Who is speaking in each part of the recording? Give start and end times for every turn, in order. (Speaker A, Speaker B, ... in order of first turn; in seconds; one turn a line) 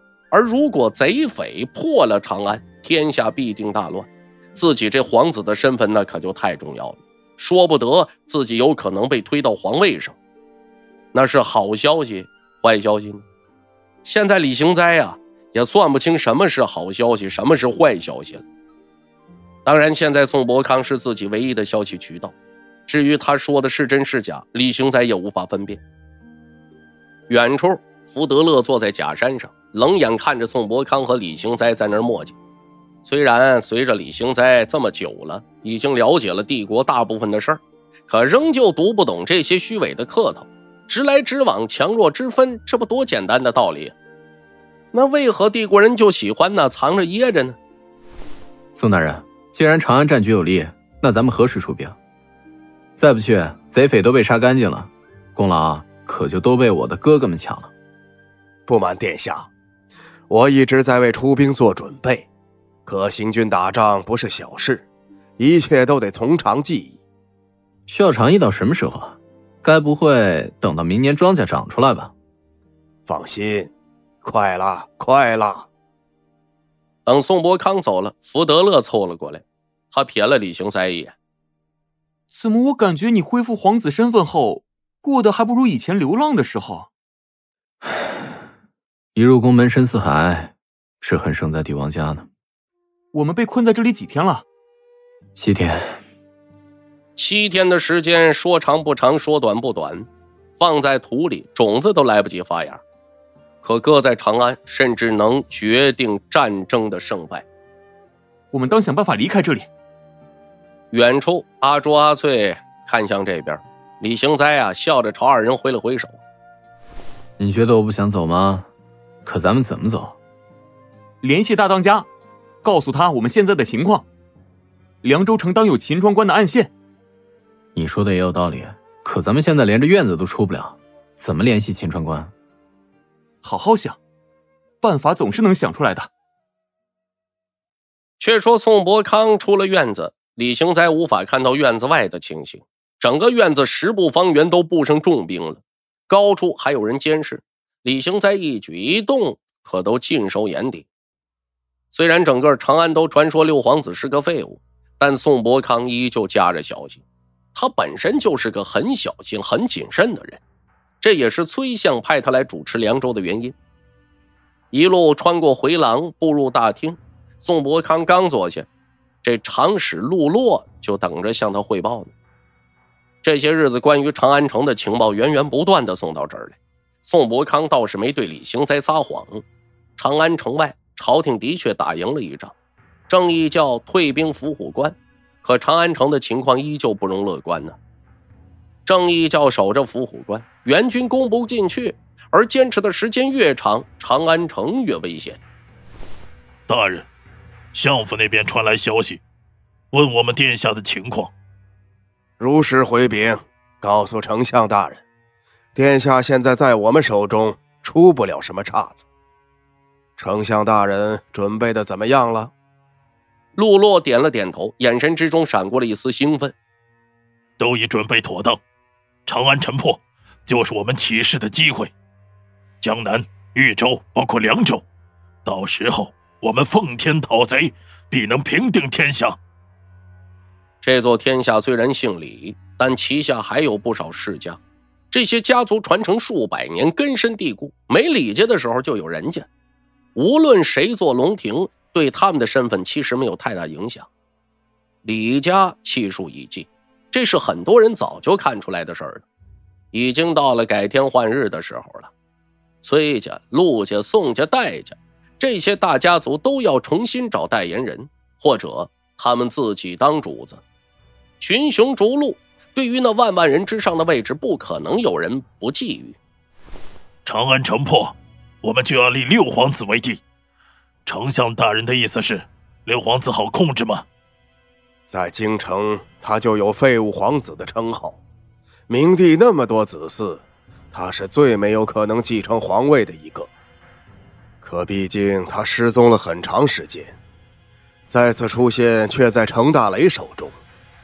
Speaker A: 0.3-10.2
Speaker A: 11.1-13.2
Speaker A: 14.1-18.4
Speaker A: 19.6-22.3
Speaker A: 22.9-25.8
Speaker A: 27.3-32.4
Speaker A: 33.0-44.0
Speaker A: 44.9-47.6
Speaker B: 48.8-52.0
Speaker B: 53.0-57.7
Speaker C: 58.7-59.5
Speaker C: 60.3-62.3
Speaker C: 62.9-64.8
Speaker C: 65.4-67.0
Speaker B: 67.9-72.1
Speaker C: 73.1-75.7
Speaker A: 77.1-81.2
Speaker D: 82.3-86.9
Speaker B: 89.2-92.3
Speaker D: 93.1-94.4
Speaker B: 95.3-96.0
Speaker A: 97.2-102.8
Speaker A: 103.6-107.5
Speaker D: 108.5-109.7
Speaker A: 110.9-116.2
Speaker B: 117.4-118.7
Speaker B: 119.2-120.2
Speaker D: 121.2-122.1
Speaker D: 122.6-124.0
Speaker D: 125.0-126.7
Speaker B: 127.8-132.3
Speaker D: 133.4-134.0
Speaker D: 134.8-136.1
Speaker A: 138.2-150.9
Speaker A: 151.9-157.0
Speaker A: 157.6-160.4
Speaker A: 161.0-163.6
Speaker A: 164.7-168.7
Speaker A: 169.2-172.1
Speaker A: 173.2-179.4
Speaker A: 180.0-182.5
Speaker A: 183.1-187.8
Speaker A: 188.9-195.4
Speaker E: 196.7-197.1
Speaker E: 197.7-199.2
Speaker E: 199.9-201.3
Speaker C: 202.4-205.0
Speaker C: 205.8-209.1
Speaker C: 210.2-212.5
Speaker A: 213.6-216.6
Speaker E: 217.6-218.6
Speaker E: 219.3-221.9
Speaker E: 222.8-224.8
Speaker E: 225.4-229.4
Speaker A: 230.8-234.6
Speaker A: 235.1-239.5
Speaker A: 240.2-244.1
Speaker A: 245.1-249.2
Speaker A: 249.9-252.1
Speaker A: 252.8-260.6
Speaker A: 261.4-266.2
Speaker E: 267.2-270.2
Speaker E: 271.1-274.1
Speaker C: 275.1-278.2
Speaker C: 278.9-283.5
Speaker C: 284.6-287.2
Speaker C: 288.1-290.6